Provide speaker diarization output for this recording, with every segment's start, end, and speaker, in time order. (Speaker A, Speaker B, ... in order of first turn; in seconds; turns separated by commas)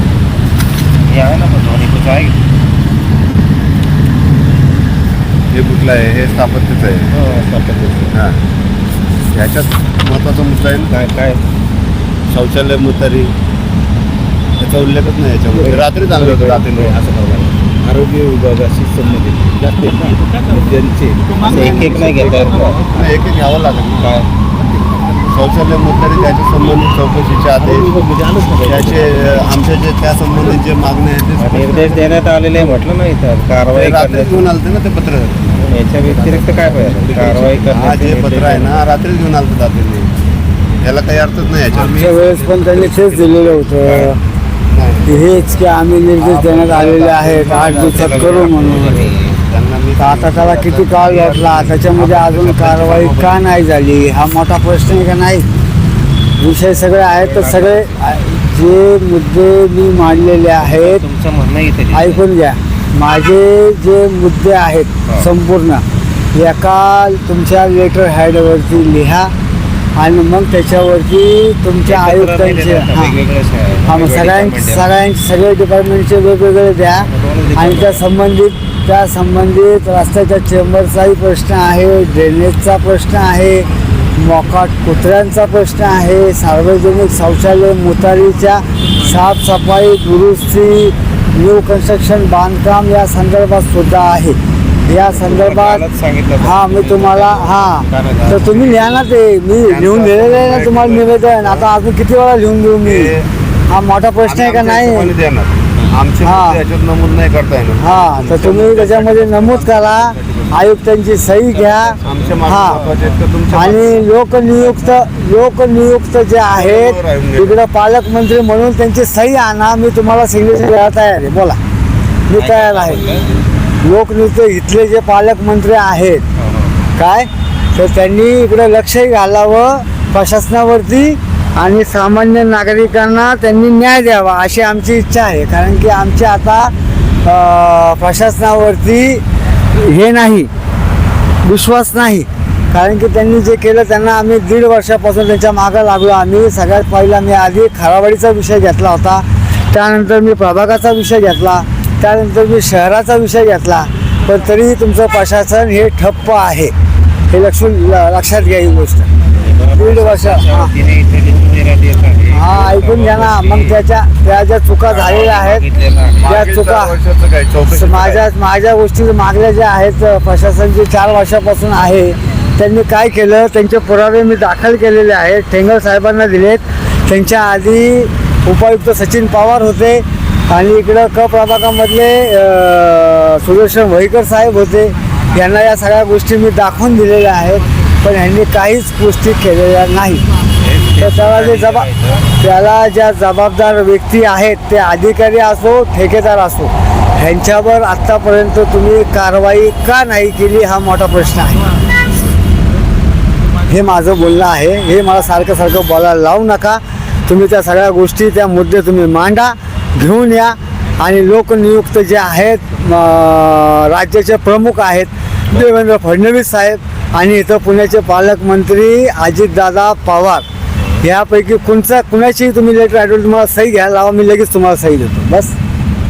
Speaker A: 1.1-2.4, Speaker B: 5.5-7.1, Speaker A: 7.1-8.1, Speaker B: 8.1-8.4, Speaker B: 9.3-10.9, Speaker A: 10.9-11.4, Speaker B: 12.3-13.3, Speaker B: 14.6-17.0, Speaker C: 15.5-23.1, Speaker A: 21.4-22.8, Speaker B: 22.8-24.1, Speaker A: 24.0-24.3, Speaker C: 24.6-25.0, Speaker B: 25.3-28.0, Speaker C: 27.6-29.5, Speaker B: 28.6-32.2, Speaker A: 31.4-34.5, Speaker B: 33.7-35.6, Speaker A: 35.5-38.8, Speaker C: 36.1-37.7, Speaker B: 37.7-40.1, Speaker B: 40.8-42.1, Speaker C: 41.7-43.4, Speaker D: 41.8-44.2, Speaker A: 43.7-44.2, Speaker B: 44.7-45.2, Speaker D: 45.1-49.1, Speaker A: 45.1-45.7, Speaker B: 46.2-52.2, Speaker A: 47.4-49.4, Speaker D: 50.0-55.5, Speaker A: 51.9-53.1, Speaker B: 52.7-53.4, Speaker D: 56.4-61.0, Speaker A: 56.4-58.0, Speaker A: 60.6-62.2, Speaker D: 61.9-69.3, Speaker D: 70.0-73.2, Speaker A: 71.8-74.9, Speaker D: 73.8-95.8, Speaker A: 76.9-78.0, Speaker A: 95.0-99.0, Speaker D: 96.4-103.1, Speaker B: 99.6-101.7, Speaker B: 102.8-103.3, Speaker D: 103.7-105.1, Speaker B: 104.2-110.7, Speaker D: 106.2-106.6, Speaker D: 107.8-112.8, Speaker A: 111.5-112.9, Speaker B: 112.0-114.0, Speaker D: 113.5-121.6, Speaker B: 116.5-117.6, Speaker D: 122.3-123.0, Speaker A: 122.4-123.3, Speaker D: 123.8-126.2, Speaker A: 126.3-126.8, Speaker D: 127.0-136.7, Speaker D: 137.2-139.2, Speaker D: 139.7-140.5, Speaker D: 141.4-156.7, Speaker D: 157.3-159.1, Speaker A: 159.4-163.8, Speaker D: 159.8-160.7, Speaker D: 162.3-165.6, Speaker A: 164.8-166.4, Speaker B: 166.2-168.2, Speaker D: 166.2-166.9, Speaker D: 167.7-190.2, Speaker A: 190.6-192.3, Speaker D: 191.0-191.9, Speaker D: 192.4-201.7, Speaker D: 203.7-220.4, Speaker A: 220.8-221.0, Speaker D: 221.0-225.5